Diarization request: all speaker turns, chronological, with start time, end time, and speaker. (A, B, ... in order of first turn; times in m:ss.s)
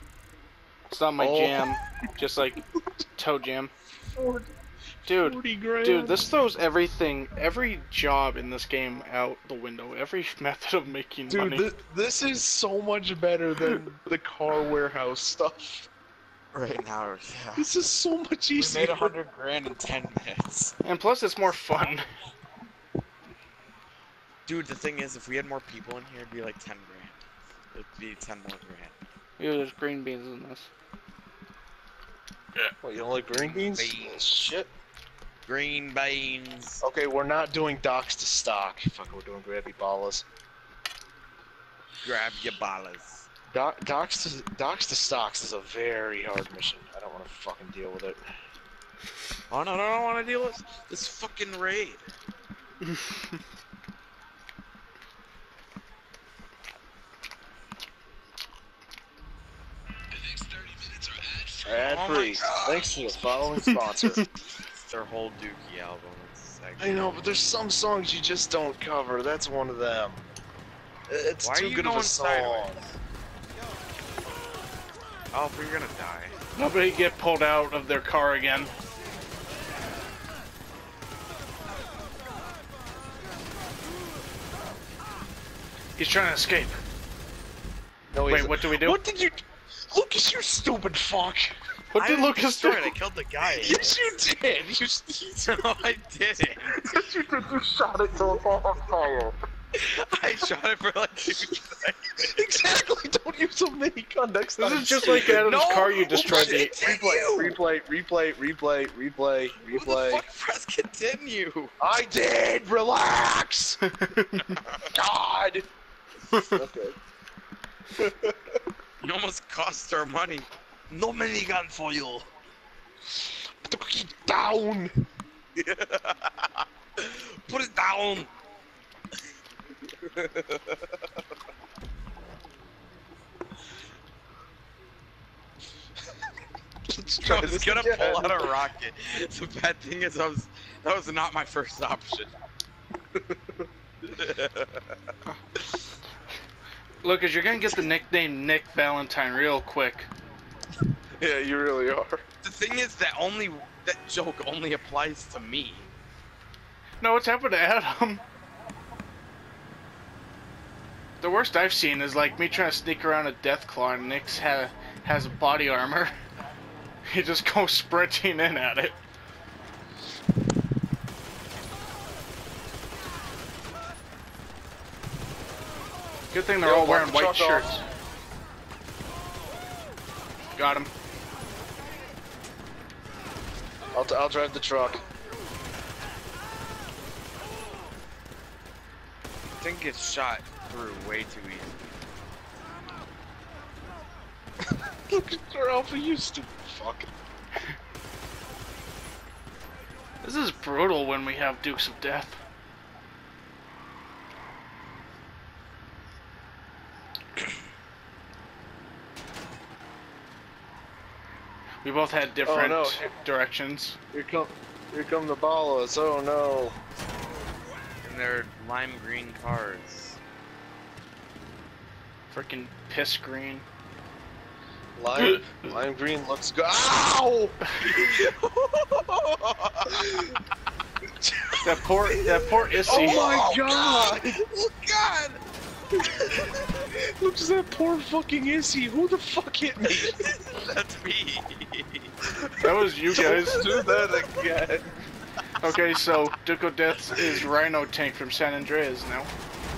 0:00.9-0:02.6 A
0:01.2-0:01.8 B
0:03.1-0:03.7 A
0:04.1-0:04.5 B
0:05.1-0:06.3 B
0:05.1-0:11.6 A
0:11.3-0:15.9 B
0:16.5-0:17.7 C
0:17.6-0:19.1 B
0:18.5-0:20.8 C
0:20.8-0:22.0 A
0:24.4-0:27.2 C
0:27.7-0:28.9 C
0:29.4-0:30.7 A
0:32.8-0:34.7 B
0:33.4-0:34.5 C
0:35.4-0:36.8 C
0:36.8-0:40.2 B
0:42.0-0:43.3 C
0:43.5-0:48.2 B
0:49.5-0:52.1 C
1:01.6-1:04.2 B
1:01.7-1:03.0 C
1:04.8-1:07.4 C
1:06.8-1:10.3 B
1:11.1-1:12.8 B
1:11.4-1:13.0 C
1:15.3-1:16.4 C
1:16.6-1:18.7 A
1:26.0-1:26.7 A
1:28.1-1:31.5 B
1:28.3-1:29.0 A
1:31.9-1:32.9 A
1:31.9-1:34.0 C
1:33.4-1:35.4 B
1:35.4-1:36.8 C
1:36.7-1:39.4 B
1:39.7-1:42.4 C
1:42.2-1:45.5 B
1:44.6-1:46.7 A
1:45.0-1:47.6 C
1:46.1-1:50.3 B
1:49.6-1:51.7 C
1:51.8-1:53.8 B
1:53.9-1:54.6 A
1:54.9-1:55.6 B
1:56.4-1:57.0 B
1:58.0-1:58.6 B
1:59.0-2:02.3 C
2:03.1-2:04.9 B
2:05.6-2:08.3 C
2:10.0-2:10.8 C
2:16.9-2:18.6 B
2:17.2-2:22.3 C
2:23.3-2:23.6 B
2:24.1-2:24.9 C
2:27.0-2:30.1 A
2:31.2-2:32.2 B
2:32.4-2:35.9 C
2:37.0-2:38.2 A
2:41.2-2:46.2 A
2:47.1-2:49.0 A
2:56.3-2:57.8 A
2:56.6-2:57.8 B
3:00.6-3:00.9 A
3:03.9-3:05.0 B
3:09.6-3:11.8 C
3:15.1-3:17.1 B
3:20.2-3:22.4 A
3:31.8-3:34.0 A
3:32.4-3:33.1 B
3:34.1-3:36.8 B
3:38.0-3:40.2 C
3:42.3-3:43.6 A
3:45.0-3:48.0 B
3:47.8-3:50.2 C
3:49.9-3:50.3 B
3:51.2-3:51.6 B
3:51.6-3:53.2 A
3:52.1-3:55.4 C
3:52.9-3:54.4 B
3:56.2-3:56.5 C
3:56.8-4:00.2 B
3:59.9-4:04.4 C
4:02.6-4:03.6 A
4:03.1-4:04.9 B
4:05.6-4:09.3 A